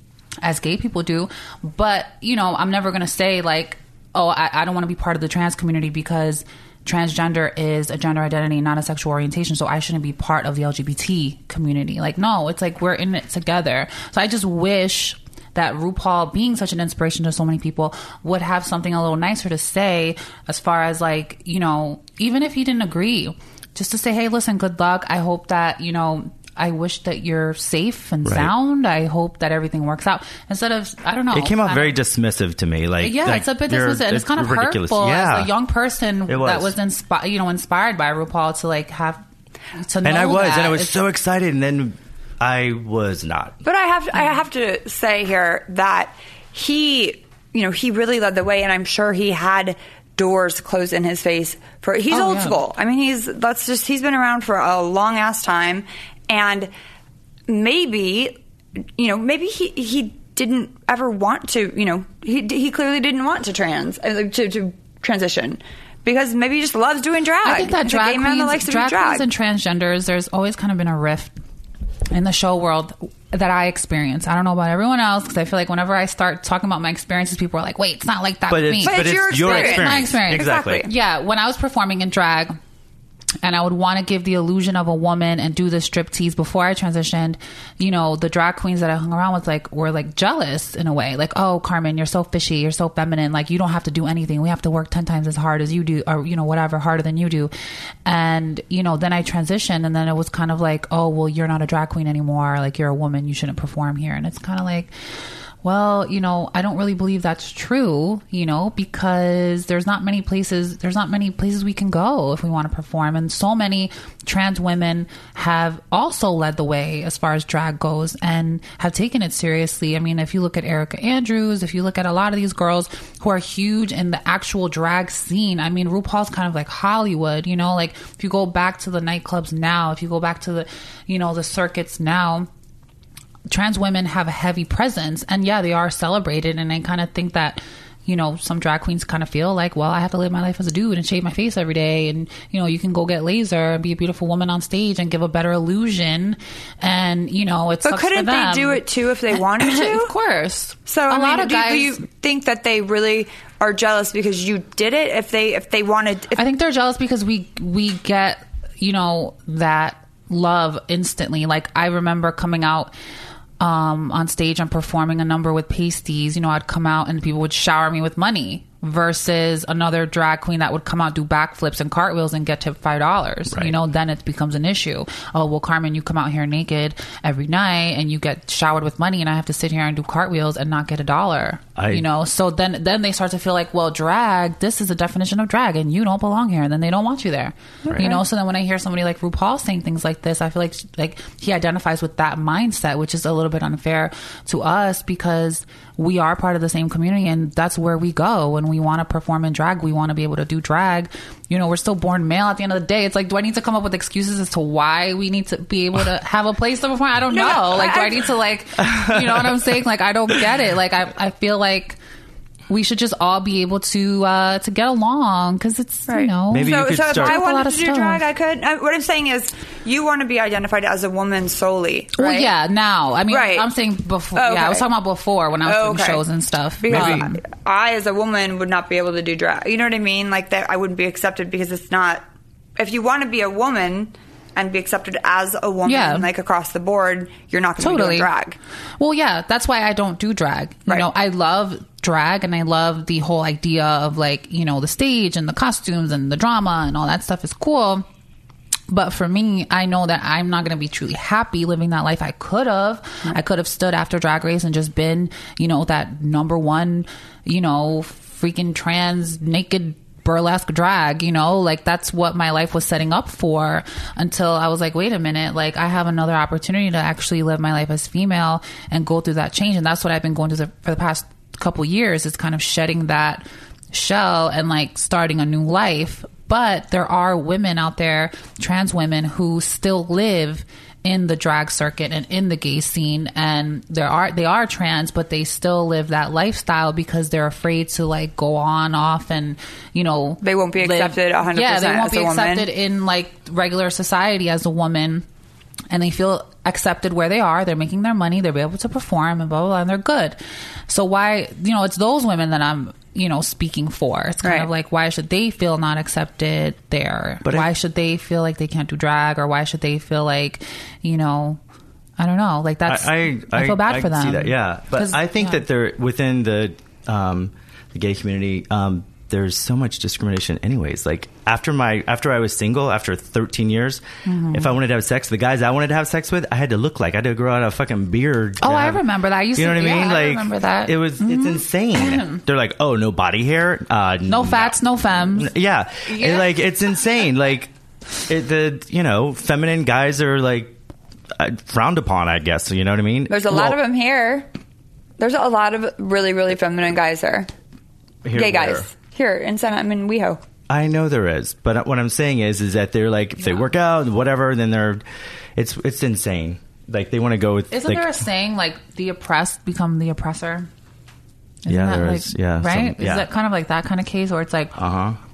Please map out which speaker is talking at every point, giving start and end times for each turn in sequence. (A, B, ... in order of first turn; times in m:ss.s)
0:00.4-0:32.0 A
0:28.2-0:28.5 B
0:31.3-0:35.5 B
0:33.0-0:40.9 A
0:36.3-0:36.7 B
0:40.0-0:43.6 B
0:43.6-0:56.7 C
0:52.1-0:52.6 A
0:57.5-0:58.4 C
0:59.0-1:09.3 C
1:07.4-1:11.3 A
1:12.1-1:22.6 A
1:18.5-1:20.9 B
1:18.8-1:20.9 C
1:23.4-1:37.5 A
1:38.1-1:44.9 A
1:45.6-2:12.5 A
2:13.5-2:32.0 A
2:27.8-2:30.1 C
2:30.9-2:36.4 C
2:36.4-2:42.9 A
2:43.6-3:32.0 A
2:53.5-2:53.8 B
3:01.8-3:02.1 B
3:07.9-3:08.1 C
3:27.3-3:28.2 C
3:28.8-3:29.6 B
3:32.7-3:38.2 A
3:36.1-3:42.5 C
3:36.5-3:37.4 B
3:42.2-3:47.4 A
3:43.3-3:43.7 C
3:44.4-3:44.9 C
3:45.6-3:46.2 C
3:46.8-3:52.2 C
3:46.9-3:47.3 B
3:52.8-3:58.6 C
3:55.9-3:56.3 A
3:57.8-3:58.3 A
3:59.0-4:08.1 A
4:08.9-4:55.3 A
4:50.4-4:52.7 C
4:55.9-5:00.4 A
5:00.9-5:11.6 A
5:04.4-5:04.7 C
5:12.2-5:15.6 A
5:12.9-5:37.7 B
5:24.2-5:24.7 A
5:28.6-5:32.4 A
5:34.3-5:35.5 A
5:38.3-5:40.8 B
5:41.4-5:43.8 B
5:43.3-5:44.5 C
5:45.2-5:47.5 C
5:48.2-5:48.9 B
5:48.3-5:50.4 C
5:50.7-5:55.0 B
5:55.6-5:58.2 B
5:57.7-6:00.7 A
6:01.6-6:04.8 A
6:01.7-6:03.3 B
6:04.7-6:05.2 B